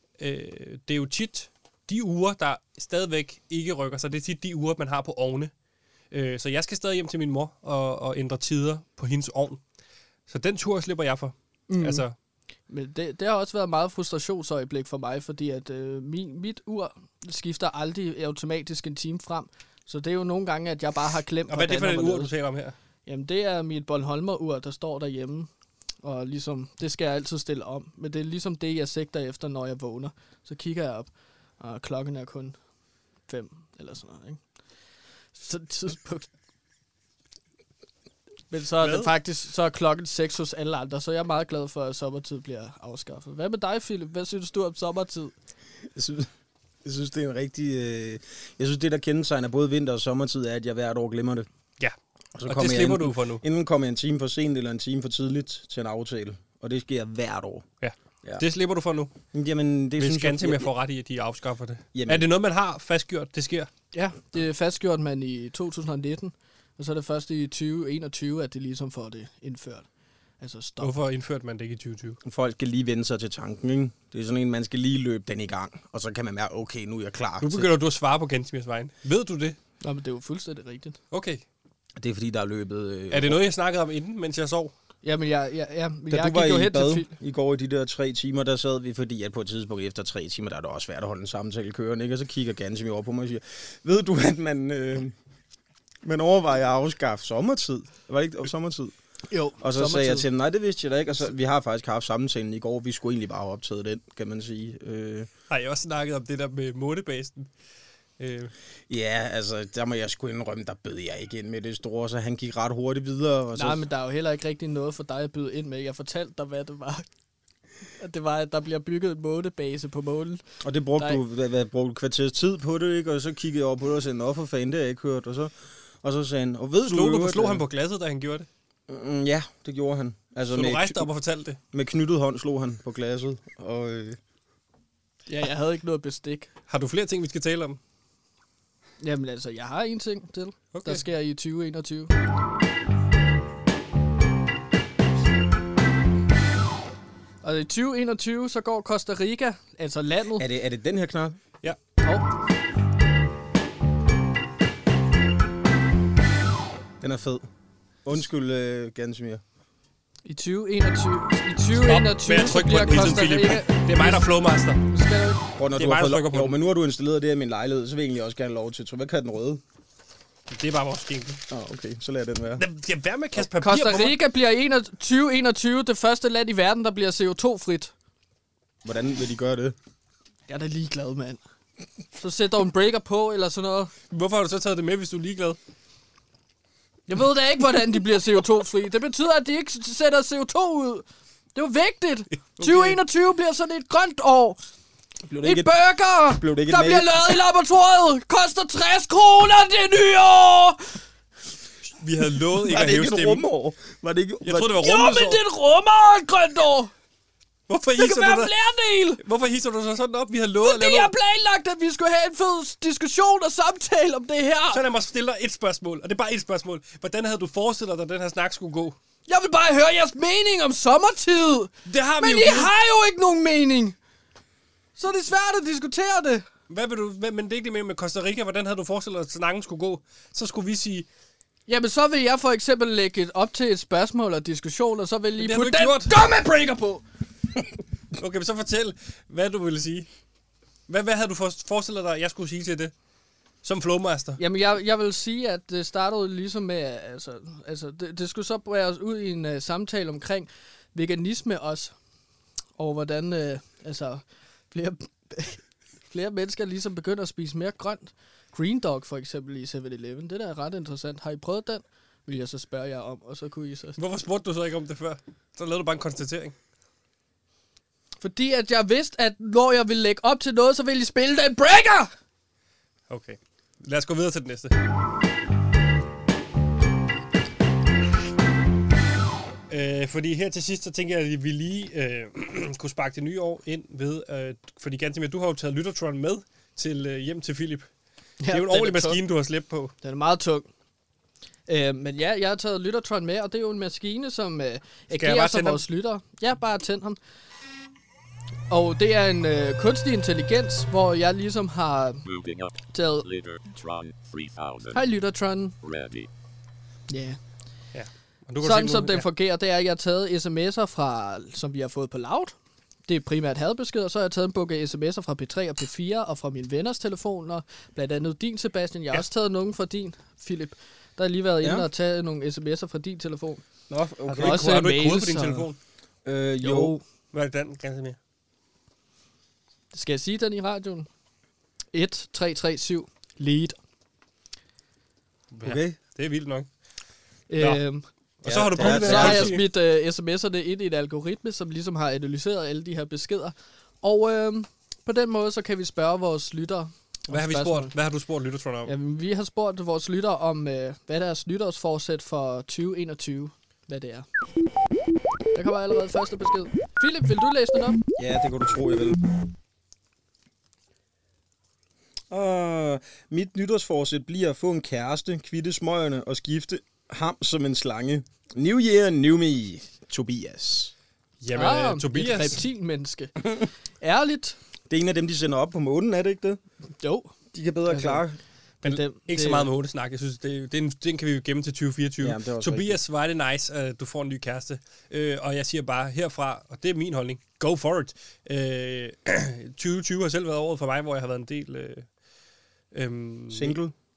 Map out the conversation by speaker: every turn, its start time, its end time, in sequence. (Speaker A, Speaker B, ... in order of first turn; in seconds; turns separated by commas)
Speaker A: 0.2-5.5, Speaker A: 6.1-9.6, Speaker A: 10.3-12.1, Speaker B: 11.7-12.0, Speaker B: 12.7-22.3, Speaker A: 21.5-22.7, Speaker B: 23.1-25.5, Speaker B: 26.0-31.1, Speaker B: 31.6-32.5, Speaker B: 33.3-34.4, Speaker B: 35.3-36.3, Speaker B: 38.5-45.3, Speaker A: 38.8-39.1, Speaker C: 45.9-46.3, Speaker C: 46.8-51.5, Speaker C: 52.4-57.6, Speaker A: 52.5-53.4, Speaker A: 57.8-59.1, Speaker C: 59.3-60.7, Speaker A: 60.0-63.7, Speaker C: 61.9-62.3, Speaker B: 63.9-69.9, Speaker B: 70.4-70.9, Speaker A: 70.8-72.2, Speaker C: 72.2-77.7, Speaker A: 77.4-79.6, Speaker B: 79.8-81.0, Speaker A: 81.1-81.4, Speaker C: 82.0-83.4, Speaker A: 83.1-84.7, Speaker B: 85.0-87.1, Speaker C: 86.1-95.1, Speaker C: 96.0-98.9, Speaker B: 99.3-100.3, Speaker C: 99.6-105.3, Speaker A: 105.5-107.5, Speaker A: 108.2-108.5, Speaker C: 108.9-113.9, Speaker B: 113.5-117.0, Speaker B: 118.0-120.4, Speaker C: 120.6-127.6, Speaker A: 126.9-128.5, Speaker C: 128.9-131.1, Speaker A: 130.5-131.6, Speaker C: 131.7-134.2, Speaker B: 135.3-136.5, Speaker A: 136.7-137.8, Speaker B: 139.0-142.1, Speaker A: 140.7-141.0, Speaker B: 147.4-150.4, Speaker C: 150.4-151.4, Speaker C: 157.0-157.5, Speaker C: 158.1-159.4, Speaker B: 160.2-164.3, Speaker A: 161.7-164.8, Speaker B: 164.9-165.4, Speaker C: 165.6-169.6, Speaker A: 165.7-166.6, Speaker A: 170.5-171.4, Speaker C: 171.5-172.6, Speaker A: 172.6-174.2, Speaker B: 173.6-177.9, Speaker C: 178.8-179.8, Speaker B: 180.5-181.4, Speaker B: 182.2-183.9, Speaker A: 184.1-185.6, Speaker B: 187.1-191.0, Speaker B: 191.6-194.6, Speaker A: 192.6-193.0, Speaker C: 195.2-195.7, Speaker B: 195.4-201.0, Speaker C: 196.3-197.3, Speaker A: 202.0-203.4, Speaker C: 202.6-204.8, Speaker A: 204.4-205.4, Speaker B: 204.8-206.9, Speaker A: 207.7-208.5, Speaker B: 208.0-209.2, Speaker A: 209.2-211.1, Speaker B: 210.6-214.8, Speaker A: 214.7-218.9, Speaker B: 219.3-223.9, Speaker A: 221.9-222.7, Speaker B: 225.0-226.4, Speaker A: 226.7-231.1, Speaker B: 231.7-237.0, Speaker A: 235.4-236.1, Speaker A: 238.2-240.1, Speaker A: 240.9-242.9, Speaker A: 243.6-244.4, Speaker B: 244.4-251.9, Speaker B: 252.8-264.0, Speaker A: 264.0-266.6, Speaker B: 268.2-272.1, Speaker A: 273.1-274.7, Speaker A: 279.7-287.9, Speaker B: 288.4-289.2, Speaker A: 288.5-289.9, Speaker B: 290.0-290.7, Speaker B: 291.7-297.2, Speaker A: 295.1-295.8, Speaker B: 298.7-302.2, Speaker D: 302.2-305.0, Speaker B: 302.9-303.3, Speaker B: 304.9-305.7, Speaker D: 305.8-306.3, Speaker B: 307.1-307.4, Speaker A: 307.9-309.2, Speaker B: 308.6-312.6, Speaker B: 313.1-323.6, Speaker C: 321.6-321.9, Speaker C: 323.9-324.9, Speaker A: 324.3-325.8, Speaker B: 324.4-325.7, Speaker C: 326.2-327.0, Speaker B: 326.6-327.0, Speaker A: 327.3-328.2, Speaker B: 329.9-331.1, Speaker B: 331.9-333.8, Speaker A: 335.5-336.7, Speaker C: 335.6-336.0, Speaker B: 337.5-338.0, Speaker A: 338.4-339.7, Speaker C: 338.4-339.6, Speaker B: 338.8-347.9, Speaker A: 347.3-348.9, Speaker B: 348.9-354.2, Speaker B: 355.5-358.0, Speaker C: 358.2-359.2, Speaker C: 362.3-370.9, Speaker A: 371.4-372.6, Speaker B: 371.5-373.3, Speaker B: 374.0-374.6, Speaker C: 374.9-376.6, Speaker B: 377.0-377.3, Speaker C: 377.5-378.4, Speaker B: 377.9-378.2, Speaker B: 378.8-379.7, Speaker A: 378.8-392.1, Speaker C: 382.2-383.0, Speaker A: 392.9-393.8, Speaker C: 393.5-393.9